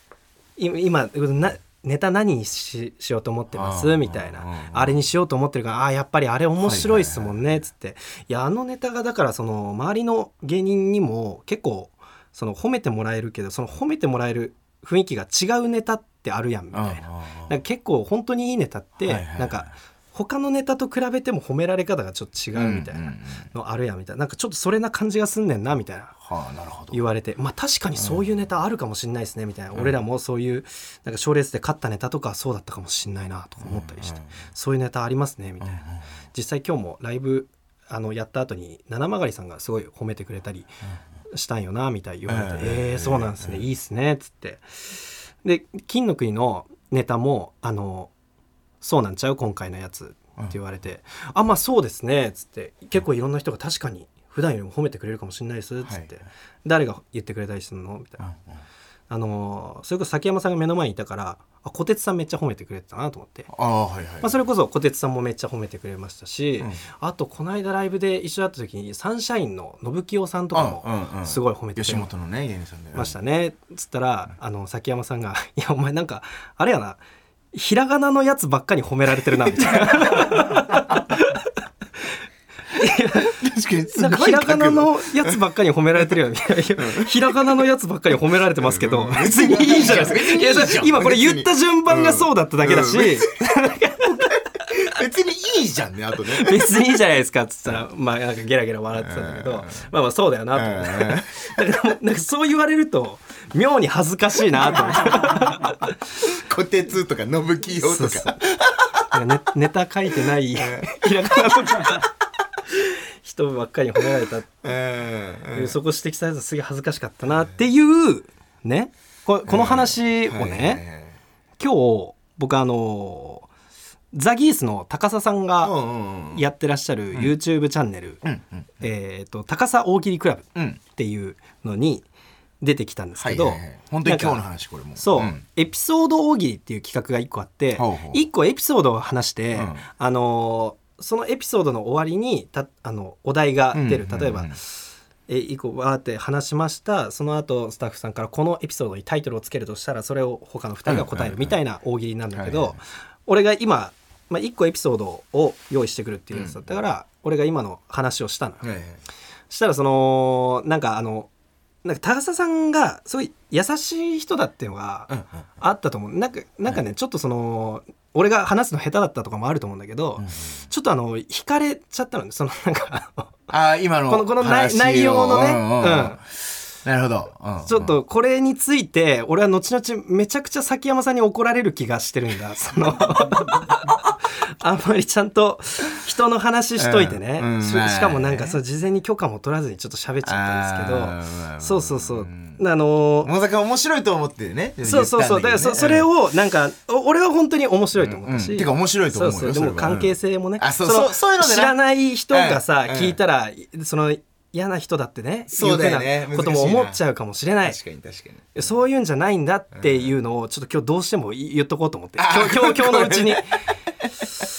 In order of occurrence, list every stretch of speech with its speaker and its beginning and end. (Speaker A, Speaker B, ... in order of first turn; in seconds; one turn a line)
Speaker A: 0.6-26.1
Speaker B: 3.5-5.0
Speaker B: 6.6-7.4
Speaker B: 16.7-17.6
Speaker B: 19.0-19.7
Speaker B: 22.5-23.5
Speaker B: 26.2-27.0
Speaker A: 26.9-35.8
Speaker B: 28.0-28.2
Speaker B: 33.6-34.4
Speaker B: 35.6-36.0
Speaker A: 36.3-40.7
Speaker A: 41.3-44.6
Speaker B: 42.3-43.6
Speaker A: 45.4-48.1
Speaker A: 48.8-58.3
Speaker B: 55.8-56.2
Speaker B: 58.2-58.6
Speaker A: 59.1-63.5
Speaker B: 63.5-64.3
Speaker A: 64.2-72.1
Speaker B: 70.5-73.1
Speaker A: 72.9-77.0
Speaker A: 77.5-81.5
Speaker A: 82.7-94.9
Speaker B: 83.2-85.4
Speaker B: 86.8-87.2
Speaker B: 88.6-93.4
Speaker B: 94.0-96.8
Speaker A: 96.3-105.9
Speaker B: 99.0-99.8
Speaker B: 100.5-101.3
Speaker B: 106.2-109.2
Speaker A: 107.8-108.4
Speaker A: 109.1-112.1
Speaker B: 110.5-112.1
Speaker A: 112.7-114.6
Speaker B: 114.6-115.8
Speaker A: 115.5-120.8
Speaker B: 119.5-121.2
Speaker A: 121.6-123.5
Speaker A: 124.1-125.7
Speaker B: 125.6-126.4
Speaker A: 126.3-128.2
Speaker B: 128.2-128.8
Speaker A: 128.8-132.1
Speaker A: 132.6-134.4
Speaker B: 133.2-135.4
Speaker A: 134.9-144.7
Speaker B: 137.8-138.2
Speaker B: 139.5-139.8
Speaker B: 143.7-144.6
Speaker A: 145.3-158.6
Speaker B: 150.9-151.6
Speaker B: 152.3-152.8
Speaker B: 156.3-156.7
Speaker B: 158.6-159.0
Speaker A: 159.5-161.3
Speaker A: 161.8-173.4
Speaker B: 165.1-165.4
Speaker B: 170.2-170.5
Speaker B: 173.5-177.9
Speaker A: 174.1-176.2
Speaker A: 177.6-193.3
Speaker B: 186.8-188.6
Speaker B: 190.2-192.6
Speaker B: 193.2-196.1
Speaker A: 194.8-207.8
Speaker B: 197.9-201.7
Speaker B: 202.3-203.2
Speaker B: 205.5-207.0
Speaker B: 207.7-208.5
Speaker A: 208.5-213.6
Speaker B: 209.8-210.1
Speaker B: 212.2-213.4